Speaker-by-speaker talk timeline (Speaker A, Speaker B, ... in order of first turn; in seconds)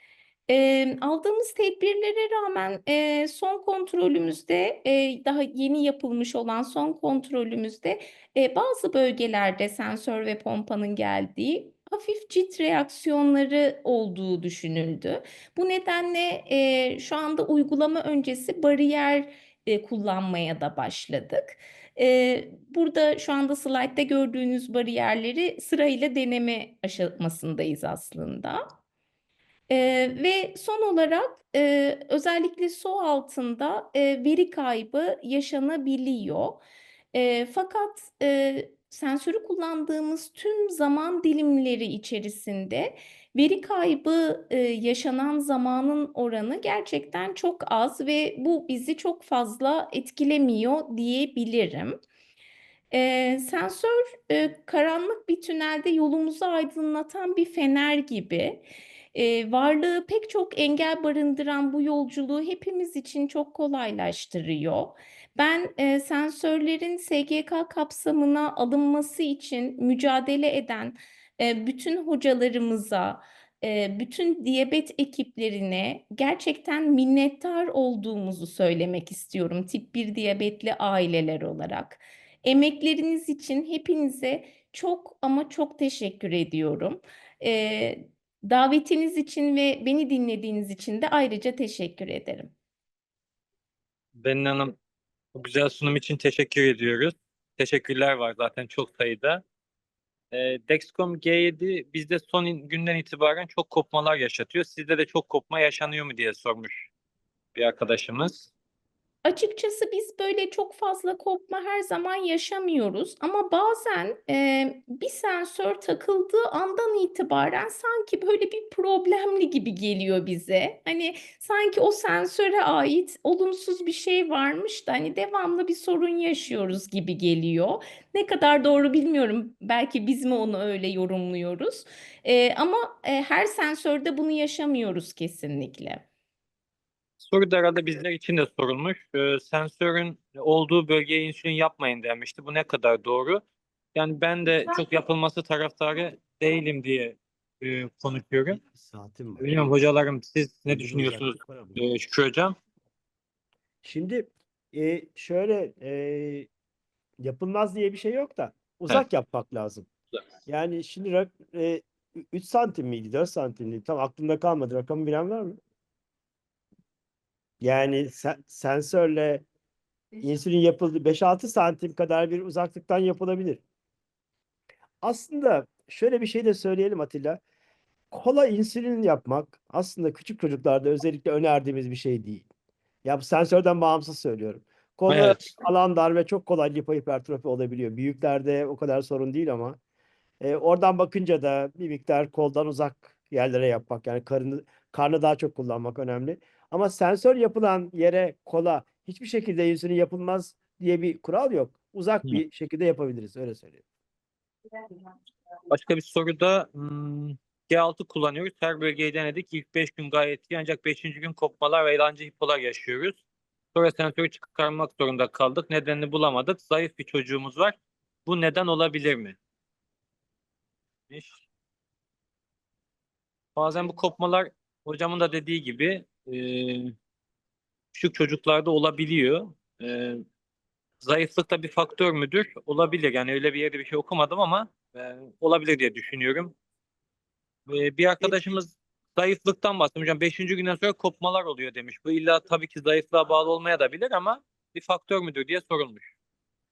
Speaker A: 0.5-28.6, 29.7-36.6, 37.1-52.0, 52.9-92.5, 109.2-136.0
Speaker B: 94.2-94.7, 95.3-99.4, 100.3-106.9, 107.5-108.5, 137.2-143.4, 143.9-148.6, 149.4-152.6, 185.1-185.5, 205.7-213.2, 213.7-219.4, 221.1-221.4, 223.6-226.9, 227.9-230.2, 231.0-236.6, 237.7-246.1
Speaker C: 148.7-149.7, 150.7-151.8, 153.8-156.5, 157.2-159.9, 160.4-165.6, 167.6-169.4, 170.2-173.6, 175.0-177.4, 178.1-182.5, 183.0-189.8, 190.4-203.8